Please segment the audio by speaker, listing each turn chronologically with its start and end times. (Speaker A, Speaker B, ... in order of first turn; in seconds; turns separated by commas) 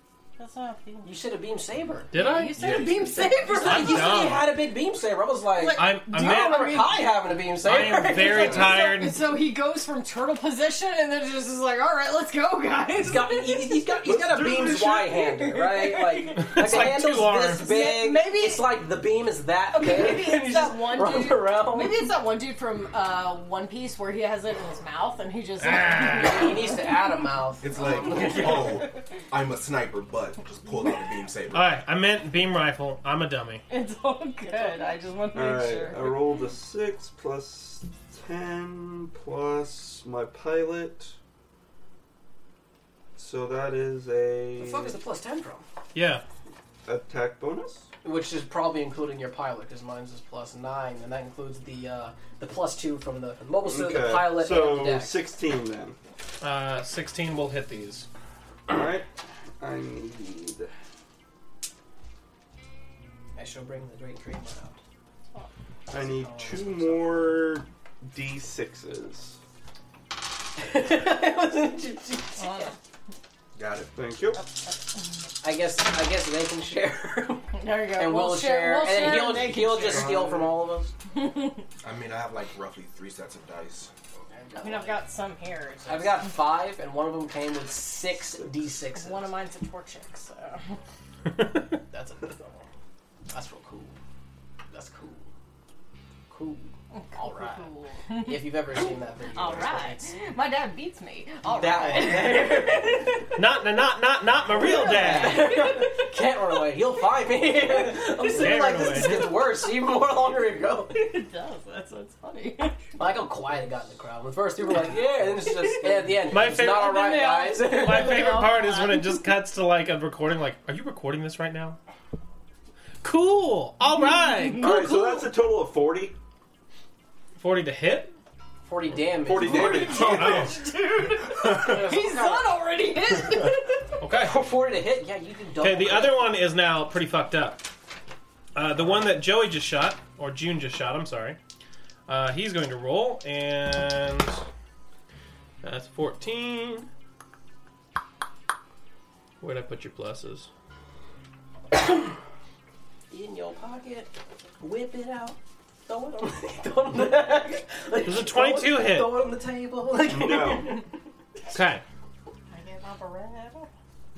Speaker A: 0.4-1.1, Speaker B: 1.0-2.1, Speaker C: 2.1-2.6, Speaker A: 2.1-4.3, Speaker D: 2.6-3.4, Speaker B: 3.4-8.3, Speaker C: 3.6-4.5, Speaker A: 5.5-7.1, Speaker C: 5.8-6.9, Speaker C: 7.6-9.2, Speaker A: 7.6-13.9, Speaker E: 8.2-8.8, Speaker B: 13.0-22.1, Speaker E: 14.0-15.6, Speaker A: 15.5-16.9, Speaker C: 16.4-17.6, Speaker A: 17.5-18.7, Speaker A: 19.7-27.0, Speaker C: 25.6-26.6, Speaker B: 26.1-28.9, Speaker D: 27.6-31.7, Speaker C: 31.5-33.6, Speaker A: 33.7-36.4, Speaker E: 35.3-41.2, Speaker E: 43.2-45.0, Speaker B: 44.5-45.6, Speaker C: 45.9-46.2, Speaker E: 46.9-47.9, Speaker B: 48.0-55.2, Speaker E: 53.6-56.0, Speaker C: 56.4-58.1, Speaker E: 58.7-59.1, Speaker E: 59.6-60.7, Speaker B: 63.4-64.8, Speaker E: 65.9-69.4, Speaker B: 65.9-67.5, Speaker B: 70.6-72.7, Speaker A: 72.4-72.8, Speaker D: 73.6-73.9, Speaker E: 73.9-74.4, Speaker B: 75.4-80.9, Speaker A: 77.5-80.2, Speaker D: 79.8-80.5, Speaker A: 81.1-81.7, Speaker D: 81.8-83.9, Speaker B: 84.2-85.1, Speaker A: 84.6-86.3, Speaker B: 85.8-89.3, Speaker A: 88.9-90.7, Speaker B: 91.9-92.7, Speaker B: 93.3-94.0, Speaker B: 94.7-95.3, Speaker B: 96.3-100.2, Speaker A: 96.9-103.3, Speaker B: 101.5-103.3, Speaker C: 103.4-105.5, Speaker B: 104.6-111.0, Speaker A: 104.6-106.1, Speaker A: 107.7-109.0, Speaker C: 108.3-109.3, Speaker A: 110.9-113.0, Speaker B: 113.0-118.3, Speaker A: 114.8-119.3, Speaker C: 116.3-117.0, Speaker C: 117.6-121.8, Speaker C: 123.0-124.7, Speaker A: 123.9-125.3, Speaker E: 124.5-126.2, Speaker C: 127.4-128.1, Speaker B: 128.7-130.2, Speaker E: 129.2-130.6, Speaker A: 129.3-134.0, Speaker C: 129.9-130.6, Speaker B: 131.4-132.6, Speaker C: 134.0-134.3, Speaker B: 134.2-136.4, Speaker C: 135.6-137.7, Speaker C: 138.6-141.4, Speaker C: 142.1-144.4, Speaker C: 145.6-146.9, Speaker C: 149.4-150.5, Speaker B: 153.1-160.8, Speaker C: 158.1-159.1, Speaker E: 160.1-160.8, Speaker C: 161.5-161.8, Speaker A: 162.5-163.7